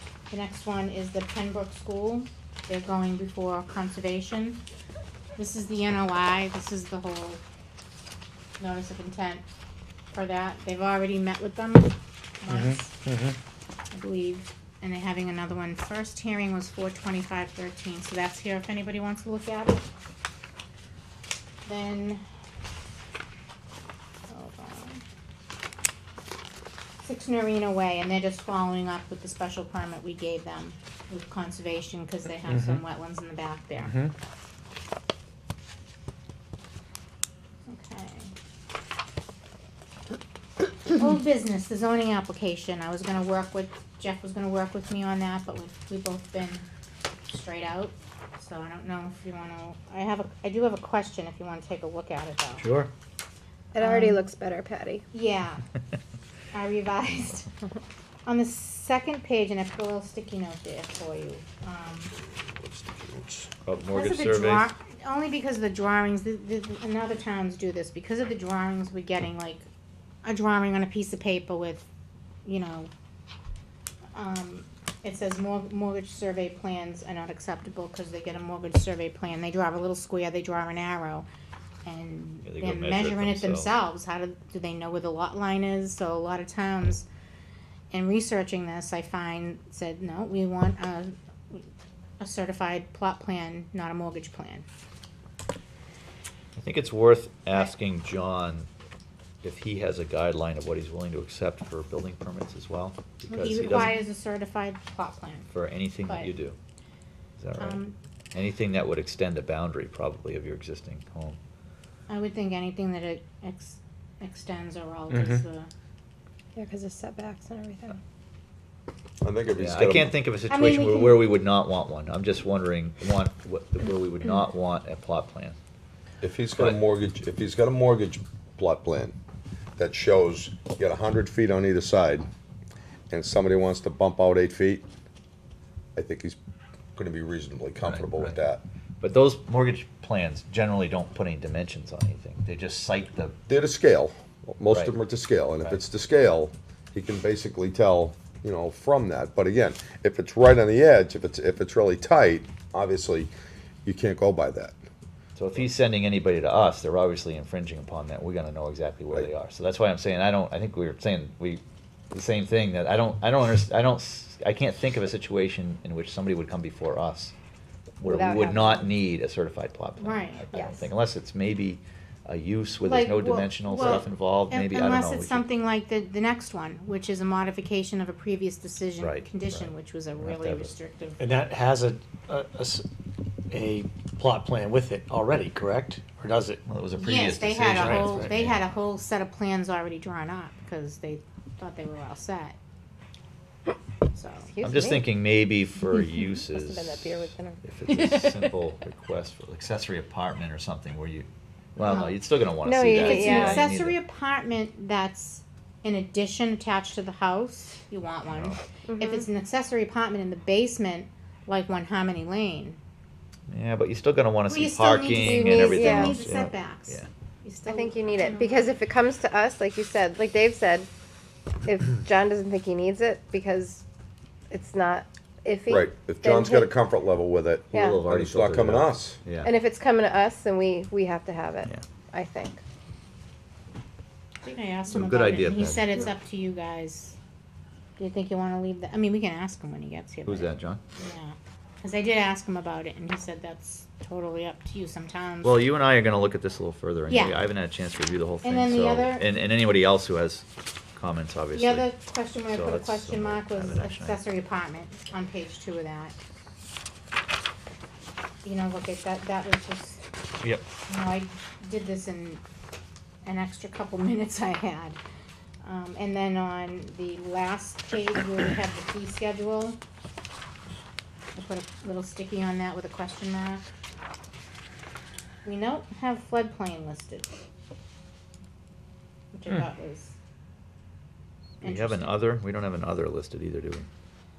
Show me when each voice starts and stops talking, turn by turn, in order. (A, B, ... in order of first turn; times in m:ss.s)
0:00.3-0:04.6 A
0:05.4-0:07.4 A
0:08.6-0:09.4 A
0:10.1-0:12.9 A
0:12.5-0:13.4 B
0:13.9-0:19.8 A
0:21.7-0:22.2 A
0:24.3-0:25.0 A
0:27.0-0:34.0 A
0:32.5-0:32.8 B
0:33.8-0:34.1 B
0:37.7-0:38.3 A
0:40.9-0:46.7 A
0:47.3-0:52.6 A
0:52.6-0:52.9 C
0:53.7-0:54.3 A
0:53.8-0:55.0 D
0:55.1-0:55.6 A
0:56.5-0:57.5 A
0:58.2-1:02.1 A
1:02.6-1:03.5 E
1:03.6-1:04.7 C
1:03.9-1:09.7 A
1:10.2-1:11.9 A
1:12.4-1:12.9 A
1:14.2-1:21.3 A
1:21.8-1:27.1 A
1:22.4-1:23.7 C
1:27.9-1:31.6 A
1:32.2-1:34.7 A
1:36.6-1:38.7 C
1:39.4-1:43.9 C
1:43.3-1:45.5 A
1:45.5-1:46.6 C
1:46.1-1:46.3 A
1:47.4-1:47.8 C
1:47.6-1:48.0 A
1:48.3-1:51.4 C
1:52.1-1:55.7 A
1:55.1-1:55.4 B
1:56.6-1:58.0 D
1:59.2-2:00.1 E
1:59.6-2:05.6 C
2:00.5-2:01.2 A
2:06.2-2:09.2 E
2:09.8-2:12.3 E
2:13.1-2:14.9 E
2:16.0-2:16.4 E
2:17.0-2:18.6 E
2:17.8-2:18.4 C
2:19.0-2:23.4 C
2:23.5-2:33.3 E
2:24.7-2:25.0 C
2:33.8-2:34.8 E
2:35.4-2:47.3 C
2:48.0-2:55.5 C
2:48.0-2:48.8 D
2:50.0-2:50.4 A
2:50.5-2:50.8 D
2:52.8-3:01.2 A
2:59.0-3:00.7 C
3:01.2-3:02.9 B
3:03.5-3:06.6 B
3:06.7-3:08.6 C
3:07.0-3:12.6 A
3:07.7-3:08.3 B
3:14.1-3:14.5 A
3:14.5-3:15.0 D
3:14.6-3:24.0 C
3:16.5-3:17.6 D
3:21.8-3:22.2 A
3:22.6-3:23.6 D
3:22.9-3:32.8 A
3:28.3-3:28.6 C
3:28.9-3:29.3 D
3:33.5-3:37.1 C
3:34.5-3:38.7 A
3:35.2-3:36.2 D
3:37.7-3:40.9 D
3:41.6-3:43.8 D
3:44.5-3:46.7 D
3:45.7-3:49.2 E
3:47.7-3:48.0 D
3:47.8-3:49.6 C
3:49.4-3:52.6 D
3:54.4-3:57.2 A
3:54.9-3:56.0 C
3:58.0-4:05.6 A
4:00.3-4:00.8 C
4:05.4-4:11.9 C
4:07.1-4:07.4 A
4:08.4-4:09.3 A
4:11.6-4:16.2 A
4:12.5-4:14.2 C
4:18.4-4:20.0 A
4:20.9-4:22.4 A
4:23.2-4:25.0 A
4:25.6-4:29.8 A
4:31.4-4:33.7 A
4:35.4-4:37.3 A
4:39.3-4:40.2 A
4:41.6-4:42.2 A
4:41.6-4:43.9 C